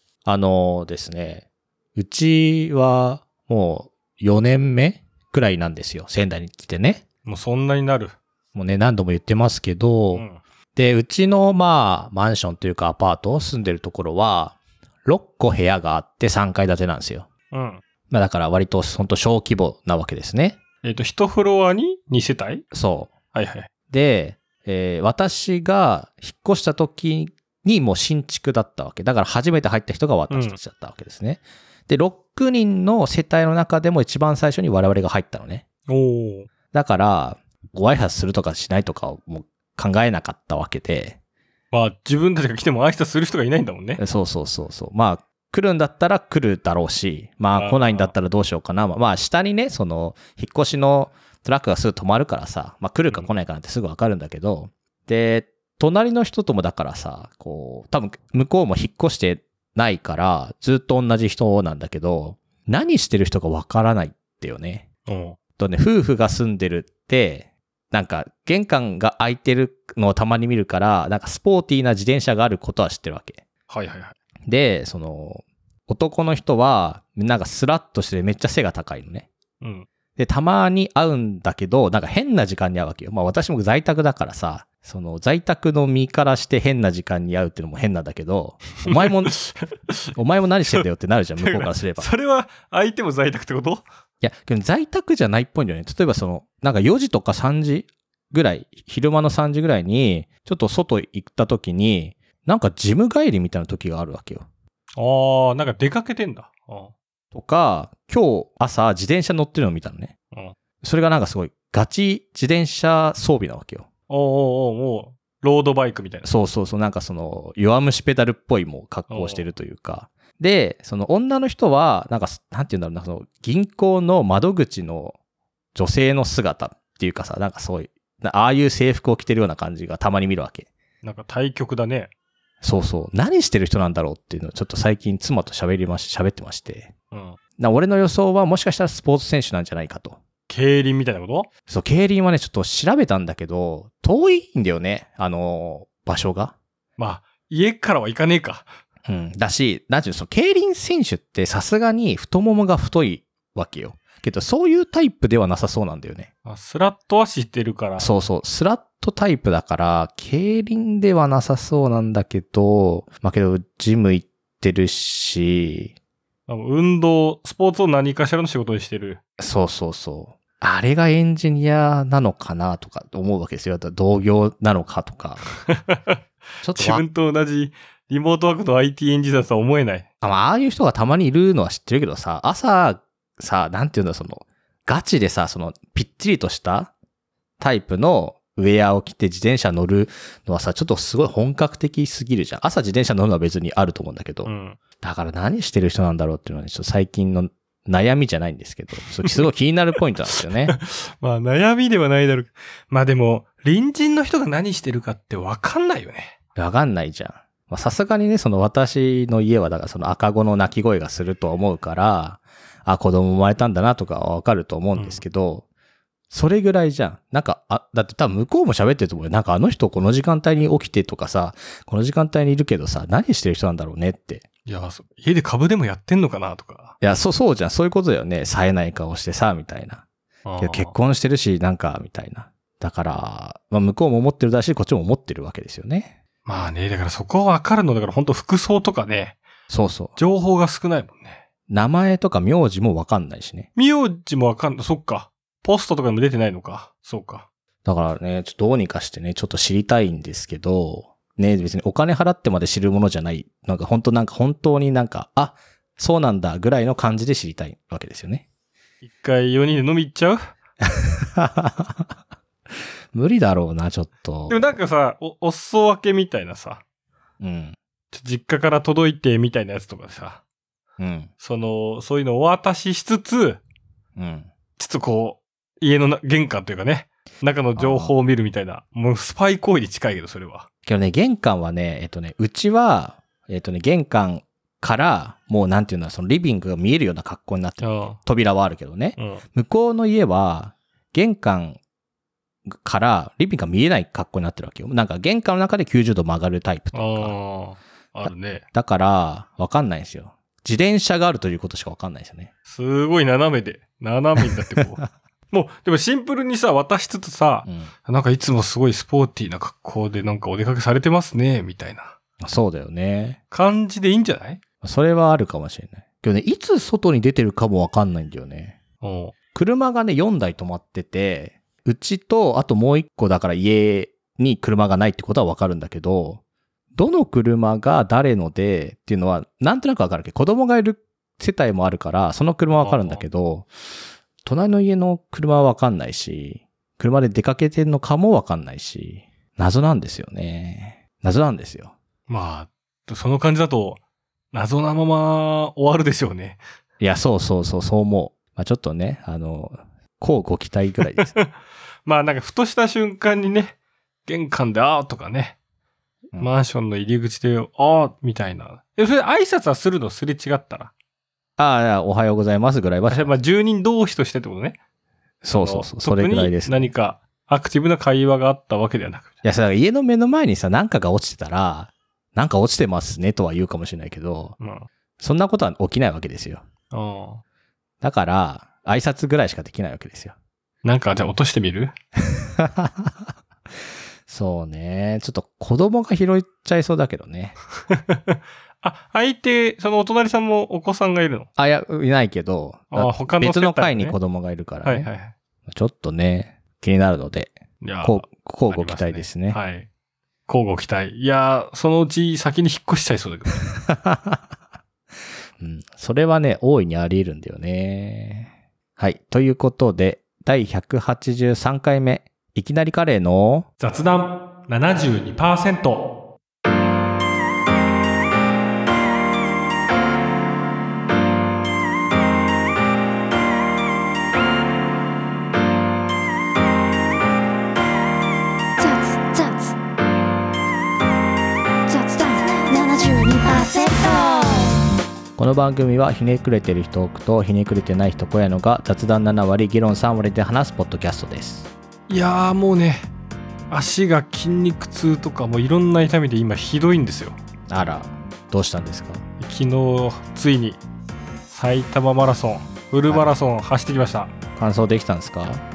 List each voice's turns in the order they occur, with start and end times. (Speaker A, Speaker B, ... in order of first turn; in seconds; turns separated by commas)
Speaker A: 0.2-7.0, Speaker B: 7.2-8.2, Speaker A: 8.5-17.3, Speaker B: 10.1-10.4, Speaker B: 17.5-17.8, Speaker A: 18.1-20.6, Speaker B: 20.8-22.6, Speaker A: 22.7-23.1, Speaker B: 23.3-23.7, Speaker A: 23.9-35.6, Speaker B: 30.3-30.6, Speaker B: 35.9-36.5, Speaker A: 36.7-41.2, Speaker B: 41.7-44.0, Speaker A: 44.0-64.8, Speaker B: 47.5-48.1, Speaker B: 65.0-65.4, Speaker A: 65.6-73.4, Speaker B: 73.7-74.2, Speaker A: 74.5-79.3, Speaker B: 79.6-79.9, Speaker A: 80.2-89.3, Speaker B: 88.9-90.1, Speaker A: 90.2-92.1, Speaker B: 91.4-93.8, Speaker A: 94.2-104.5, Speaker B: 105.0-106.9, Speaker A: 107.3-110.1, Speaker A: 110.8-113.9, Speaker B: 114.1-116.3, Speaker A: 116.2-125.2, Speaker B: 119.1-119.5, Speaker A: 125.7-130.7, Speaker B: 131.0-132.1, Speaker A: 132.6-136.9, Speaker B: 137.1-137.4, Speaker A: 137.6-140.2, Speaker B: 140.5-141.5, Speaker A: 141.7-146.5, Speaker B: 147.0-148.7, Speaker A: 149.1-156.3, Speaker B: 156.4-158.1, Speaker A: 158.0-165.9, Speaker B: 166.5-169.2, Speaker A: 169.4-175.5, Speaker B: 175.7-176.2, Speaker A: 176.6-177.0, Speaker B: 176.7-180.1, Speaker A: 180.2-186.9, Speaker A: 187.6-200.8, Speaker B: 194.4-194.8, Speaker B: 200.7-206.3, Speaker A: 206.5-215.6, Speaker B: 214.9-215.2, Speaker A: 216.3-224.4, Speaker B: 224.7-226.9, Speaker A: 227.0-230.0, Speaker B: 230.4-230.9, Speaker A: 230.6-236.1, Speaker B: 236.4-239.4, Speaker A: 239.7-240.2, Speaker B: 240.2-241.4, Speaker A: 241.7-243.7, Speaker B: 243.8-247.4, Speaker A: 247.8-258.4, Speaker B: 259.0-260.4, Speaker A: 260.9-262.1, Speaker A: 263.1-264.7, Speaker B: 264.5-266.8, Speaker A: 267.4-267.8, Speaker B: 268.1-270.4, Speaker A: 271.0-271.3, Speaker B: 271.4-273.6, Speaker A: 274.1-274.5, Speaker B: 274.8-280.7, Speaker A: 277.8-278.1, Speaker A: 280.8-291.8, Speaker B: 287.8-288.2, Speaker B: 289.2-289.4, Speaker A: 292.7-297.3, Speaker B: 296.9-298.6, Speaker A: 298.7-302.5, Speaker B: 302.7-312.1, Speaker A: 304.8-305.0, Speaker A: 307.6-307.9, Speaker A: 312.4-313.4, Speaker B: 313.5-314.6, Speaker A: 314.8-318.8, Speaker B: 319.0-319.3, Speaker A: 319.5-326.4, Speaker A: 326.9-333.7, Speaker B: 332.8-333.2, Speaker A: 334.4-341.9, Speaker B: 342.3-344.0, Speaker B: 344.5-346.6, Speaker A: 347.0-351.3, Speaker B: 351.1-351.5, Speaker B: 352.0-355.6, Speaker B: 356.4-360.9, Speaker A: 361.6-363.3, Speaker B: 363.1-364.8, Speaker A: 365.4-366.9, Speaker B: 365.6-369.3, Speaker A: 369.4-374.6, Speaker B: 374.6-374.9, Speaker A: 375.2-376.6, Speaker B: 376.9-377.4, Speaker A: 378.0-380.3, Speaker B: 380.8-381.9, Speaker A: 382.3-383.1, Speaker A: 384.3-387.6, Speaker B: 387.9-391.5, Speaker A: 391.6-395.1, Speaker B: 392.9-394.2, Speaker B: 394.8-395.3, Speaker A: 395.6-399.6, Speaker B: 397.8-399.9, Speaker B: 400.5-403.6, Speaker A: 403.7-404.4, Speaker A: 405.6-413.7, Speaker B: 413.8-416.1, Speaker C: 428.8-429.7, Speaker C: 431.9-434.7, Speaker A: 435.4-441.7, Speaker B: 442.1-443.1, Speaker B: 443.7-447.4, Speaker A: 447.7-449.2, Speaker B: 449.4-450.8, Speaker B: 451.5-454.3, Speaker A: 454.6-455.6